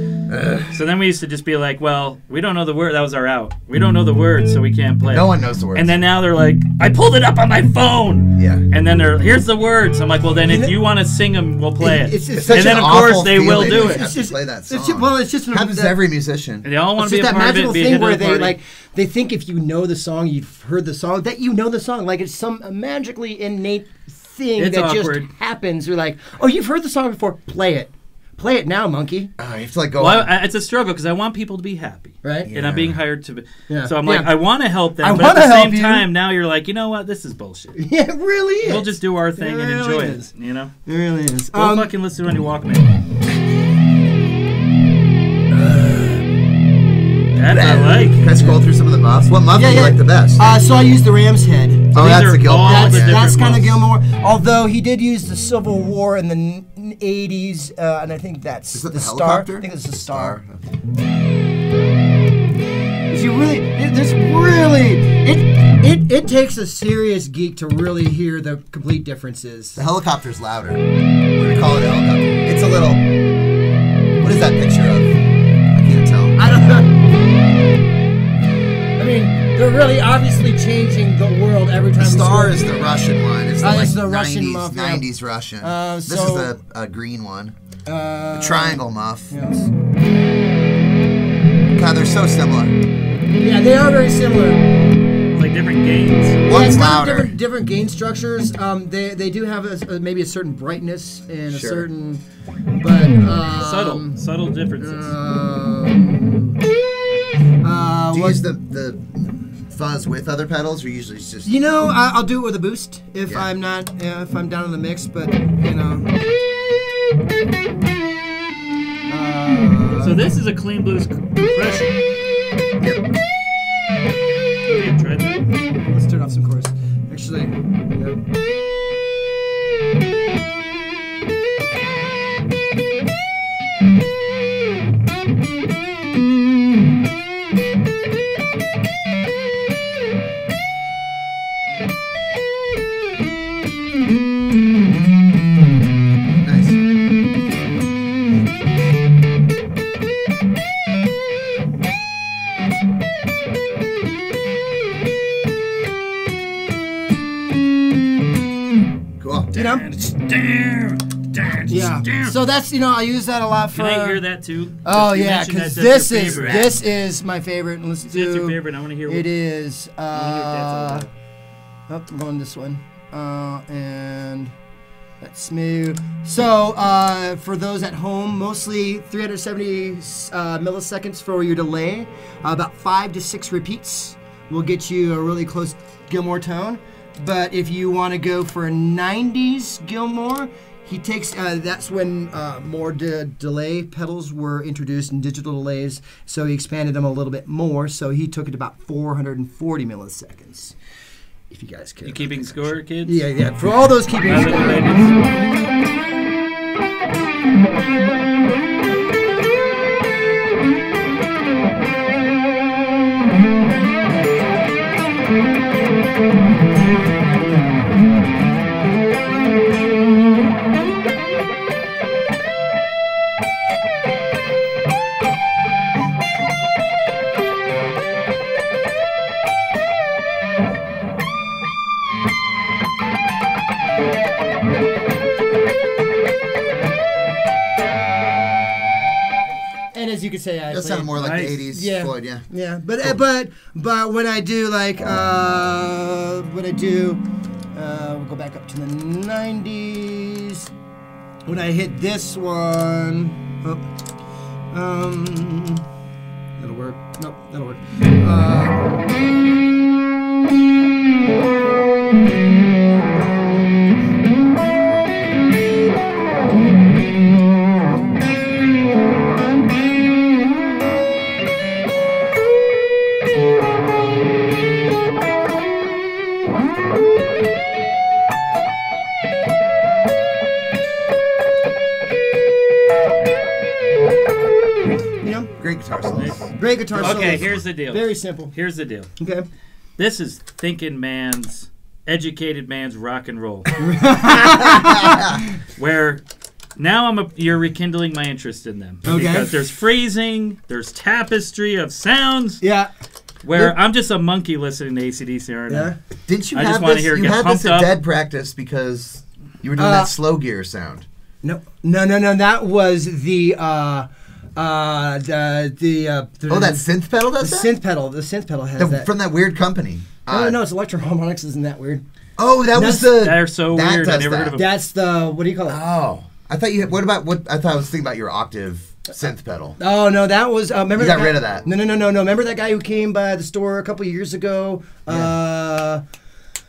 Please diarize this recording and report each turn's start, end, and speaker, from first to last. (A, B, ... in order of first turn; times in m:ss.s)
0:00.3-0:00.7 A
0:00.7-0:14.0 B
0:05.1-0:06.0 A
0:08.3-0:08.6 A
0:10.4-0:10.8 C
0:11.8-0:16.0 C
0:12.3-0:16.6 A
0:16.6-0:18.6 B
0:17.0-0:29.3 C
0:24.6-0:25.3 B
0:29.4-0:30.3 A
0:30.0-0:37.8 B
0:32.2-0:32.5 C
0:32.4-0:33.0 A
0:33.7-0:34.4 C
0:35.0-0:36.1 C
0:37.8-0:40.3 C
0:38.6-0:40.7 B
0:40.8-0:41.9 C
0:41.5-0:42.9 B
0:45.6-0:45.9 C
0:47.3-0:48.2 B
0:47.4-0:50.6 A
0:48.4-0:48.6 C
0:49.5-1:00.4 C
0:51.9-0:53.2 A
0:51.9-0:53.8 B
0:58.7-1:00.6 A
1:03.1-1:09.8 C
1:09.8-1:13.0 A
1:14.2-1:15.2 A
1:15.7-1:16.4 A
1:16.4-1:17.0 C
1:19.0-1:22.7 C
1:22.0-1:27.5 A
1:23.6-1:25.0 C
1:25.6-1:26.5 C
1:27.8-1:29.7 C
1:28.3-1:29.3 A
1:31.7-1:32.8 A
1:33.3-1:34.6 C
1:35.3-1:36.4 B
1:36.4-1:37.4 A
1:36.5-1:42.2 C
1:41.5-1:41.9 A
1:42.8-1:44.2 C
1:43.5-1:45.1 B
1:44.8-1:46.6 C
1:47.6-1:48.4 C
1:48.1-1:51.5 A
1:51.4-1:56.1 C
1:59.1-2:00.3 C
2:00.0-2:02.0 B
2:04.7-2:05.4 B
2:05.9-2:08.2 C
2:26.4-2:26.8 A
2:39.2-2:39.6 A
2:39.5-2:39.9 C
2:39.5-2:42.3 B
2:41.7-2:44.2 C
2:43.7-2:46.7 B
2:44.8-2:51.1 C
2:46.2-2:46.8 A
2:48.0-2:49.3 B
2:50.1-2:51.1 B
2:51.9-2:54.5 C
2:55.2-3:20.7 C
3:21.5-3:25.3 C
3:22.0-3:23.2 B
3:24.2-3:25.3 B
3:59.9-4:10.7 C
4:00.7-4:02.4 A
4:01.1-4:01.5 B
4:11.5-4:13.8 C
4:14.7-4:15.8 C
4:16.6-4:19.0 C
4:45.2-4:45.5 C
4:45.6-4:46.5 A
4:46.6-4:48.5 C
4:46.9-4:49.1 B
4:47.0-4:47.5 A
4:49.2-4:49.4 C
4:50.0-4:53.7 B
4:53.8-4:55.4 C
4:54.6-4:55.4 A
4:55.8-4:56.2 B
4:56.8-5:02.6 B
4:59.0-4:59.6 C
5:02.6-5:02.9 C
5:03.4-5:05.9 B
5:05.7-5:06.0 C
5:06.3-5:11.0 A
5:06.5-5:07.9 B
5:09.8-5:10.1 C
5:11.4-5:16.9 C
5:16.5-5:17.7 A
5:17.4-5:19.1 C
5:18.8-5:20.6 A
5:20.3-5:22.0 C
5:22.4-5:24.6 A
5:22.7-5:23.3 C
5:23.2-5:24.7 B
5:24.5-5:25.8 C
5:25.6-5:29.8 A
5:29.8-5:36.0 C
5:30.9-5:31.6 A
5:35.1-5:35.3 A